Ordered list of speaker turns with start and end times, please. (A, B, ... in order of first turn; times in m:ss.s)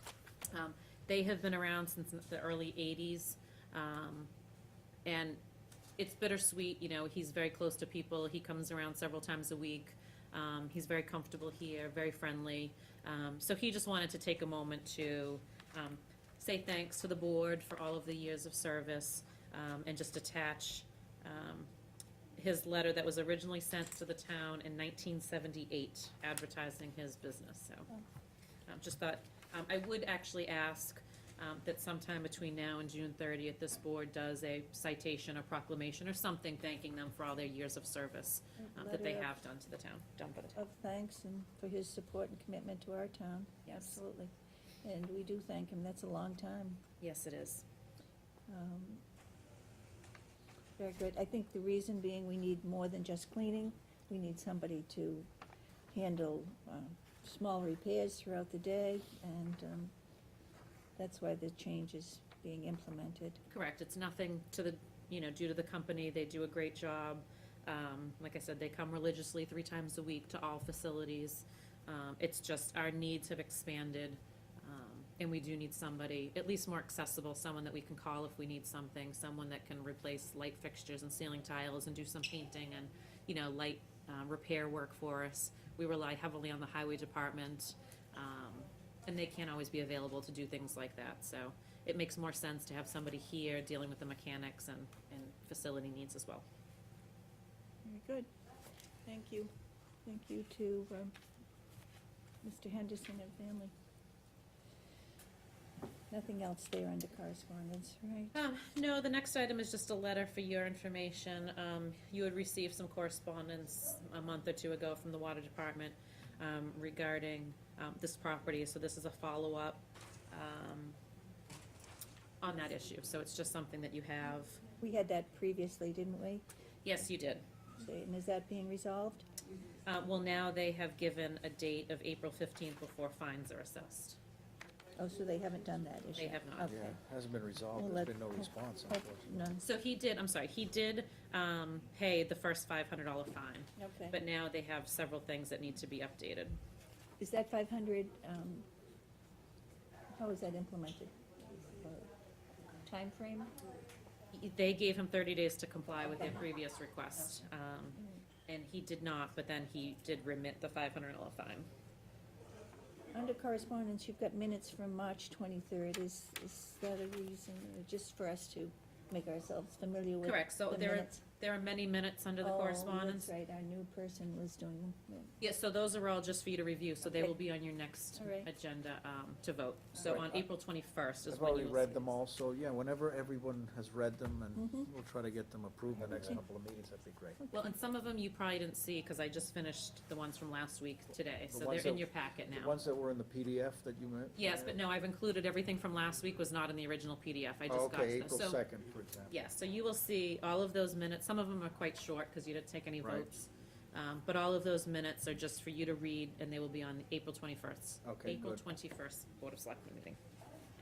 0:00.5-0:04.3 A
0:05.0-0:05.4 A
0:06.0-0:21.7 A
0:22.4-0:27.9 A
0:28.7-0:40.6 A
0:38.6-0:39.3 B
0:40.6-0:44.3 B
0:43.6-0:44.0 A
0:44.8-0:46.8 B
0:47.0-0:47.6 A
0:48.5-0:49.0 B
0:50.8-0:55.3 B
0:55.9-0:59.9 B
1:01.0-1:03.4 B
1:03.5-1:36.4 A
1:37.8-1:38.3 B
1:39.0-1:39.5 B
1:40.0-1:41.1 B
1:42.4-1:43.7 B
1:46.1-1:48.3 B
1:48.3-2:01.0 A
2:02.4-2:04.6 A
2:04.8-2:06.4 B
2:06.8-2:07.4 A
2:07.8-2:09.2 B
2:09.8-2:14.2 A
2:15.0-2:17.0 B
2:16.2-2:16.7 A
2:16.7-2:19.3 C
2:17.8-2:19.6 B
2:19.6-2:26.6 A
2:23.8-2:24.2 B
2:27.2-2:28.6 B
2:30.1-2:32.1 B
2:32.8-2:33.5 B
2:34.3-2:41.7 A
2:43.1-2:51.2 B
2:50.2-2:53.3 A
2:52.4-2:55.3 B
2:55.4-3:02.2 A
2:57.0-2:57.3 B
2:58.2-2:58.5 B
3:00.0-3:00.4 C
3:01.3-3:07.4 C
3:04.6-3:04.9 B
3:07.5-3:12.8 A
3:11.5-3:14.8 C
3:14.4-3:18.6 A
3:17.7-3:19.4 C
3:19.3-3:30.2 A
3:23.0-3:23.3 C
3:28.0-3:28.6 C